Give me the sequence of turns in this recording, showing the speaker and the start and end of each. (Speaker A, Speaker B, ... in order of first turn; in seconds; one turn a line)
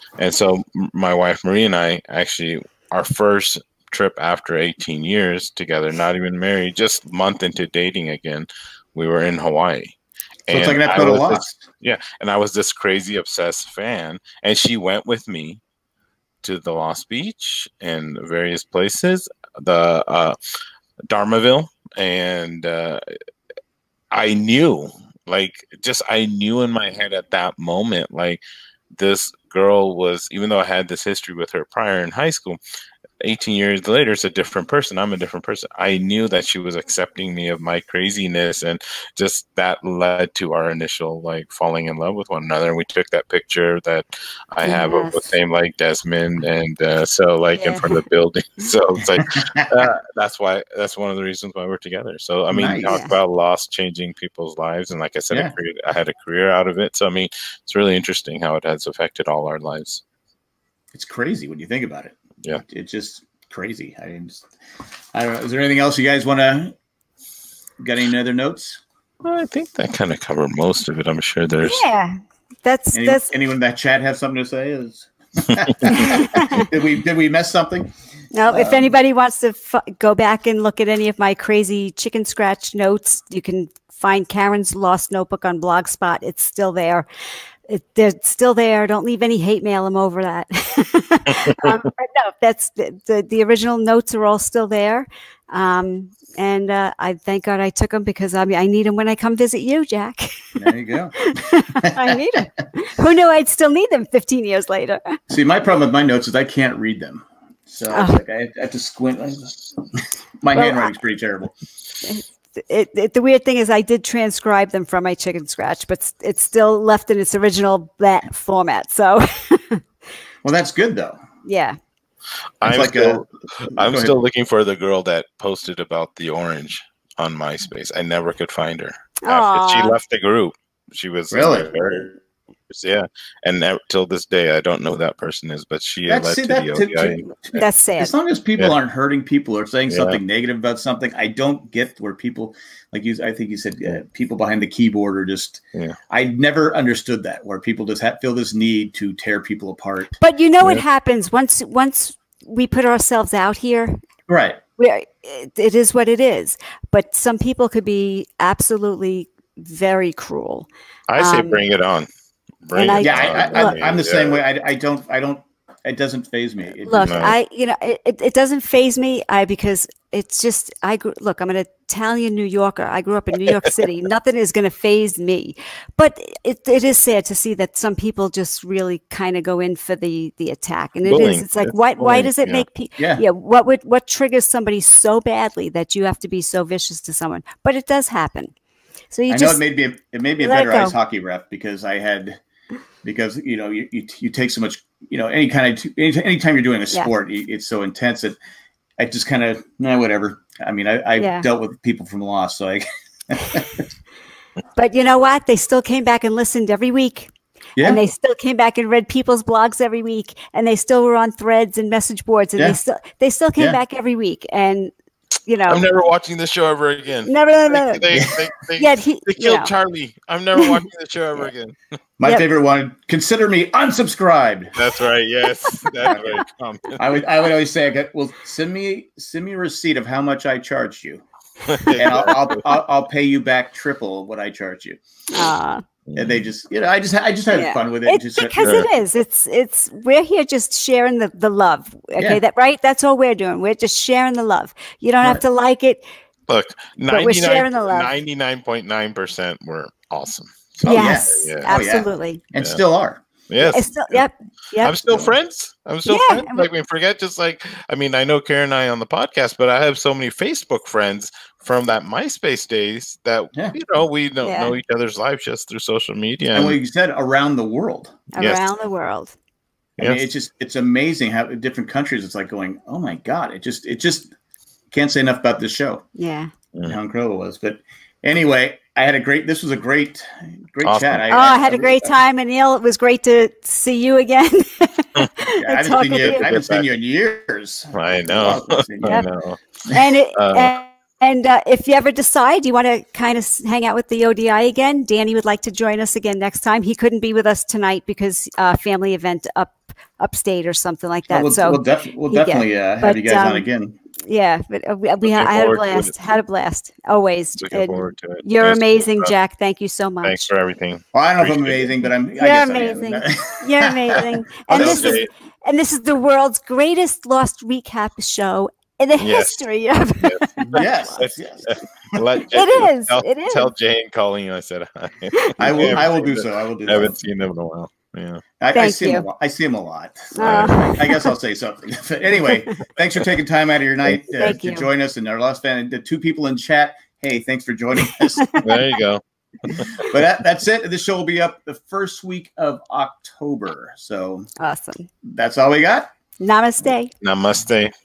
Speaker A: 0.2-9.9
Speaker B: 10.5-11.6
Speaker A: 10.5-15.6
Speaker A: 16.4-20.4
Speaker A: 21.1-23.0
Speaker A: 24.1-28.4
Speaker A: 28.9-32.6
Speaker A: 33.2-60.0
Speaker C: 44.6-45.3
Speaker C: 47.6-48.0
Speaker B: 49.2-49.7
Speaker B: 52.5-53.0
Speaker C: 52.8-53.1
Speaker B: 60.9-64.5
Speaker B: 65.1-66.7
Speaker B: 67.8-68.8
Speaker A: 69.2-71.8
Speaker C: 71.6-73.3
Speaker B: 72.9-77.9
Speaker C: 75.8-76.7
Speaker C: 78.3-87.0
Speaker B: 78.5-78.9
Speaker C: 87.7-100.4
Speaker A: 91.5-91.8
Speaker B: 100.5-102.2
Speaker C: 101.2-105.2
Speaker B: 105.3-111.5
Speaker C: 107.9-108.2
Speaker C: 110.5-111.0
Speaker C: 112.0-119.8
Speaker B: 120.4-121.2
Speaker C: 121.4-121.8
Speaker A: 122.6-137.2
Speaker B: 122.6-124.2
Speaker C: 129.2-130.0
Speaker B: 131.3-131.7
Speaker B: 136.1-150.2
Speaker C: 137.5-138.1
Speaker A: 139.9-140.2
Speaker C: 150.2-154.0
Speaker B: 154.3-154.6
Speaker C: 154.8-161.6
Speaker A: 161.1-162.1
Speaker A: 162.6-164.4
Speaker C: 162.7-163.8
Speaker B: 163.0-167.3
Speaker C: 166.8-188.5
Speaker A: 166.9-167.3
Speaker A: 181.0-182.7
Speaker B: 183.0-183.2
Speaker C: 189.1-189.6
Speaker B: 189.3-192.4
Speaker C: 190.4-190.9
Speaker B: 193.0-198.4
Speaker B: 199.0-203.8
Speaker C: 201.2-201.4
Speaker C: 204.8-214.9
Speaker C: 215.5-215.8
Speaker A: 215.7-221.8
Speaker C: 217.3-218.1
Speaker B: 218.1-218.4
Speaker C: 218.8-219.7
Speaker B: 222.2-224.8
Speaker A: 224.8-227.2
Speaker B: 227.0-231.2
Speaker A: 231.7-232.6
Speaker B: 231.9-235.0
Speaker C: 235.3-235.8
Speaker A: 236.1-236.4
Speaker B: 236.2-238.8
Speaker C: 237.5-246.0
Speaker A: 238.6-238.9
Speaker B: 242.2-242.4
Speaker A: 246.5-251.7
Speaker C: 247.1-248.1
Speaker B: 250.8-253.2
Speaker C: 250.9-252.4
Speaker A: 253.5-254.2
Speaker C: 253.6-255.0
Speaker A: 254.8-266.8
Speaker C: 256.1-256.7
Speaker C: 264.4-264.7
Speaker B: 266.5-268.3
Speaker C: 268.3-269.3
Speaker B: 270.0-274.3
Speaker B: 274.9-276.1
Speaker C: 276.1-276.5
Speaker B: 276.8-282.2
Speaker A: 280.8-281.2
Speaker C: 281.3-286.5
Speaker B: 285.6-289.3
Speaker A: 286.2-286.9
Speaker A: 287.9-289.6
Speaker C: 289.9-303.6
Speaker A: 290.3-290.8
Speaker B: 301.3-304.0
Speaker C: 304.3-310.4
Speaker A: 305.2-306.1
Speaker A: 307.6-309.3
Speaker A: 310.2-312.1
Speaker B: 311.1-315.2
Speaker C: 312.4-321.2
Speaker A: 314.7-315.3
Speaker A: 319.2-319.6
Speaker A: 320.2-328.4
Speaker B: 320.6-322.2
Speaker C: 322.5-323.7
Speaker C: 325.3-326.0
Speaker B: 325.6-327.1
Speaker B: 328.6-338.7
Speaker C: 328.7-329.2
Speaker C: 330.3-331.3
Speaker A: 330.4-330.8
Speaker C: 334.3-334.9
Speaker A: 338.6-340.1
Speaker B: 339.7-344.5
Speaker C: 344.6-345.1
Speaker B: 345.2-346.1
Speaker C: 346.4-347.1
Speaker A: 347.2-347.9